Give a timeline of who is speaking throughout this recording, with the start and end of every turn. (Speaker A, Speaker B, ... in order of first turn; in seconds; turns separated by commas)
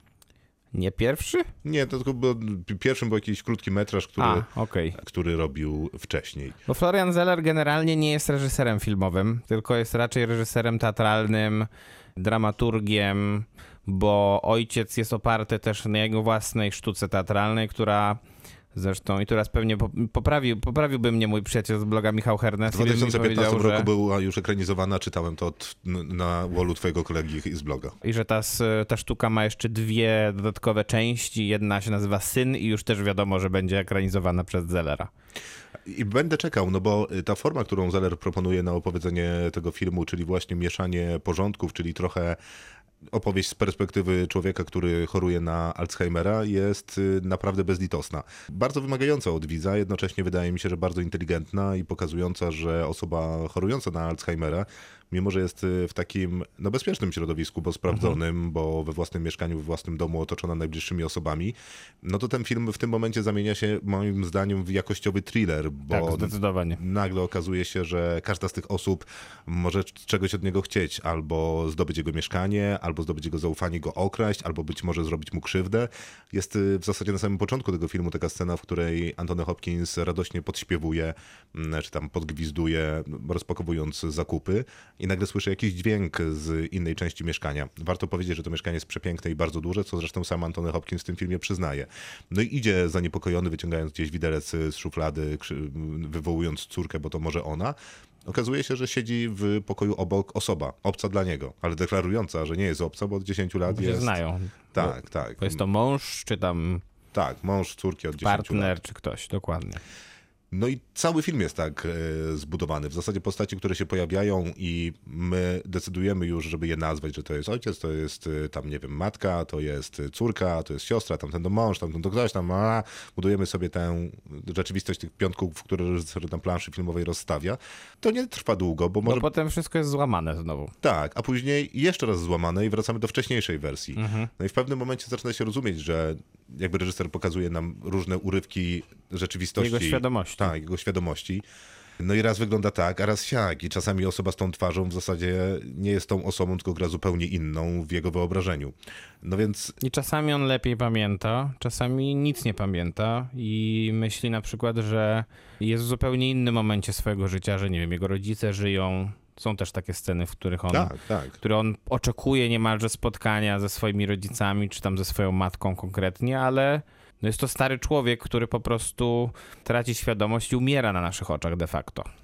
Speaker A: 0.7-1.5, Speaker B: 1.6-6.6, Speaker A: 4.2-5.0, Speaker A: 6.7-18.2, Speaker A: 18.7-23.9, Speaker B: 22.7-27.9, Speaker A: 28.0-35.1, Speaker B: 35.9-42.4, Speaker B: 43.1-104.2, Speaker A: 65.9-66.8, Speaker A: 103.7-106.8, Speaker B: 104.8-105.6, Speaker B: 107.1-108.8, Speaker A: 108.2-109.8, Speaker B: 110.5-129.3, Speaker A: 129.1-130.7, Speaker B: 130.8-141.4, Speaker A: 133.9-134.3, Speaker A: 139.6-140.5, Speaker B: 142.0-149.8, Speaker A: 149.8-172.1, Speaker B: 160.7-161.4